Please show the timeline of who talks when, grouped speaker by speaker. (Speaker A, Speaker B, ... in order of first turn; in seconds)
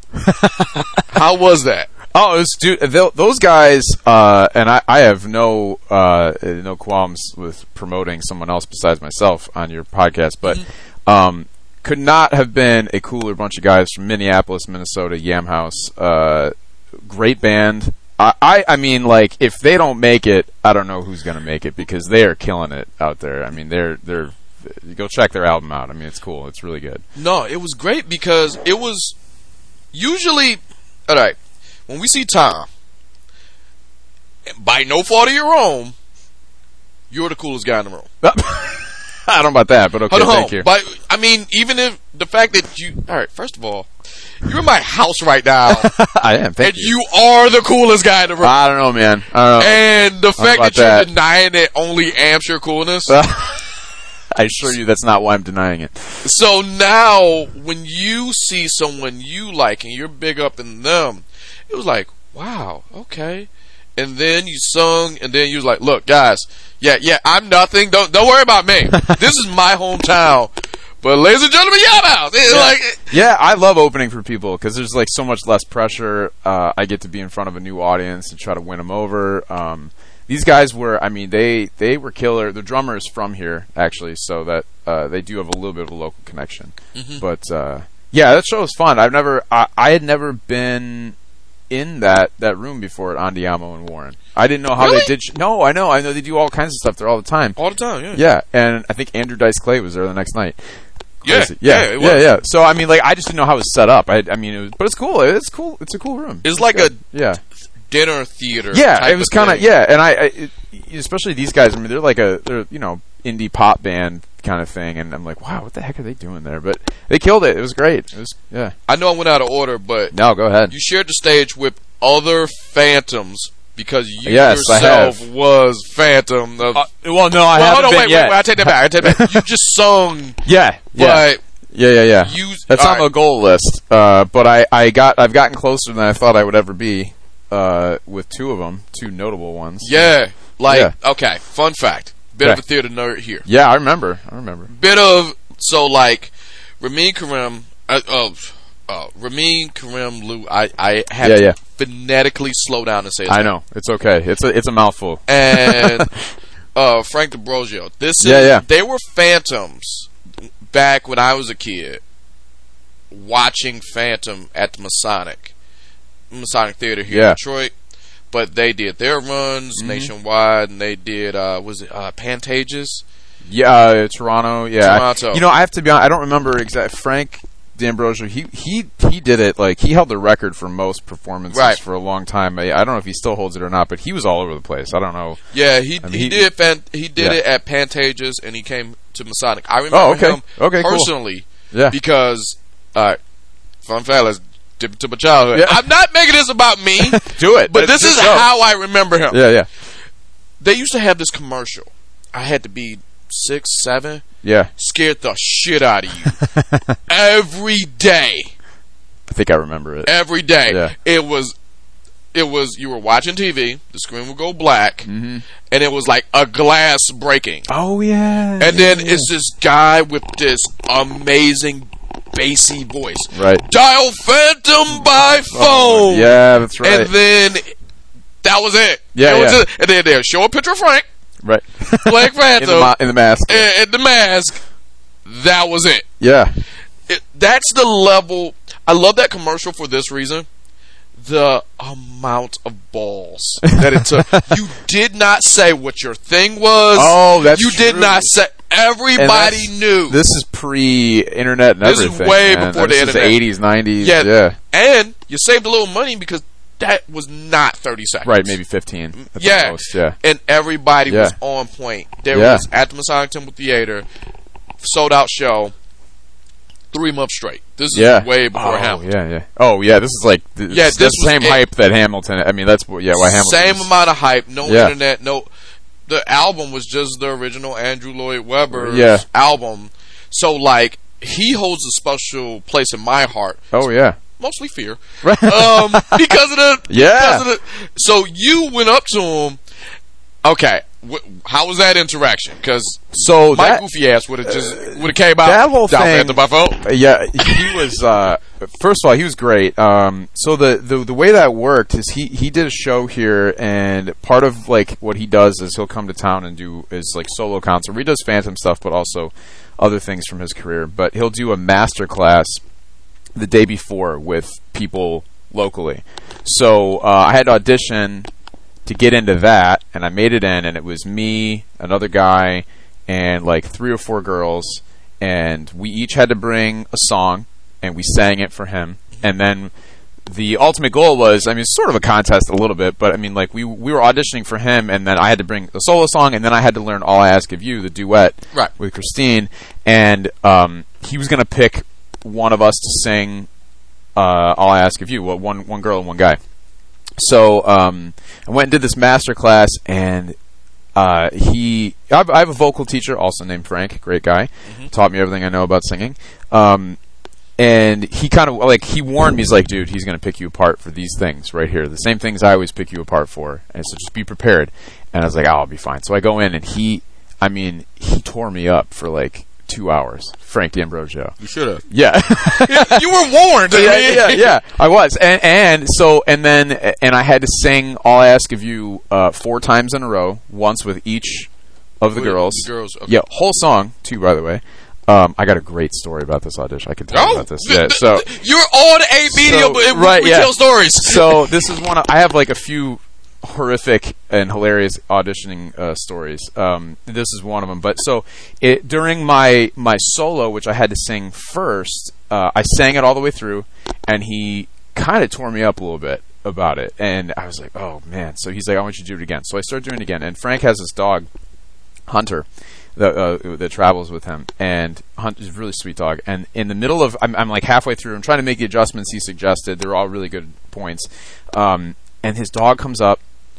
Speaker A: 0.1-1.1, 2.1-27.0, 38.2-40.7, 45.7-46.9, 48.4-49.8, 50.4-51.1, 53.1-53.6, 54.3-56.0, 72.5-91.1, 91.7-97.6, 98.1-100.6, 101.2-107.4, 108.7-118.7, 120.1-120.7, 124.2-125.2, 126.7-129.4, 130.4-140.0, 140.7-140.9, 143.4-144.7, 151.2-151.6, 153.3-156.1, 158.2-158.6, 167.1-167.4, 169.8-170.1, 173.5-185.4, 186.0-186.5, 189.9-191.1, 195.5-195.8, 197.0-198.5, 199.3-199.7, 204.4-204.7, 206.5-206.9, 209.3-210.1, 210.7-210.9, 215.1-215.4, 217.7-219.3, 223.3-223.6, 225.0-227.1, 229.1-229.6, 231.4-233.7, 236.2-236.5, 243.8-244.5, 246.9-248.3, 249.2-254.6, 258.2-260.1, 261.1-261.4, 262.3-262.6, 267.9-273.9, 274.6-274.9, 278.7-279.2, 283.7-284.2, 285.2-286.4, 286.9-287.4, 293.1-293.8, 294.4-312.6, 313.4-318.3, 318.9-329.7, 330.3-343.5, 344.1-346.4, 347.2-350.4, 350.9-357.0, 357.6-371.3, 371.9-373.0, 373.7-381.5, 382.0-388.2, 389.3-411.3, 412.1-423.2
Speaker B: 1.1-1.9, 27.2-29.1, 29.9-31.4, 31.9-32.7, 34.6-35.9, 37.1-38.1, 40.1-43.9, 44.4-45.9, 46.6-48.5, 49.6-53.2, 56.2-73.1, 86.9-87.2, 94.8-95.1, 97.6-98.2, 101.2-102.3, 106.4-107.0, 107.9-109.7, 118.9-120.2, 120.7-126.9, 127.4-130.4, 130.9-131.4, 132.2-133.1, 139.8-143.4, 144.7-153.5, 155.3-156.1, 156.7-160.1, 160.7-162.0, 163.1-165.5, 166.3-167.7, 168.3-173.0, 174.8-175.4, 181.5-181.8, 185.5-193.2, 193.8-199.4, 200.6-206.4, 207.1-208.5, 210.1-211.5, 212.3-215.1, 215.7-217.7, 218.6-227.7, 228.4-231.0, 232.0-234.6, 235.2-236.0, 237.1-240.4, 241.2-250.2, 251.8-253.4, 254.0-258.5, 259.1-264.0, 264.8-265.7, 266.9-269.0, 270.7-271.6, 273.1-275.5, 276.1-283.8, 284.4-289.6, 290.4-296.8, 371.4-371.8, 372.4-374.6, 382.1-383.1, 387.1-391.6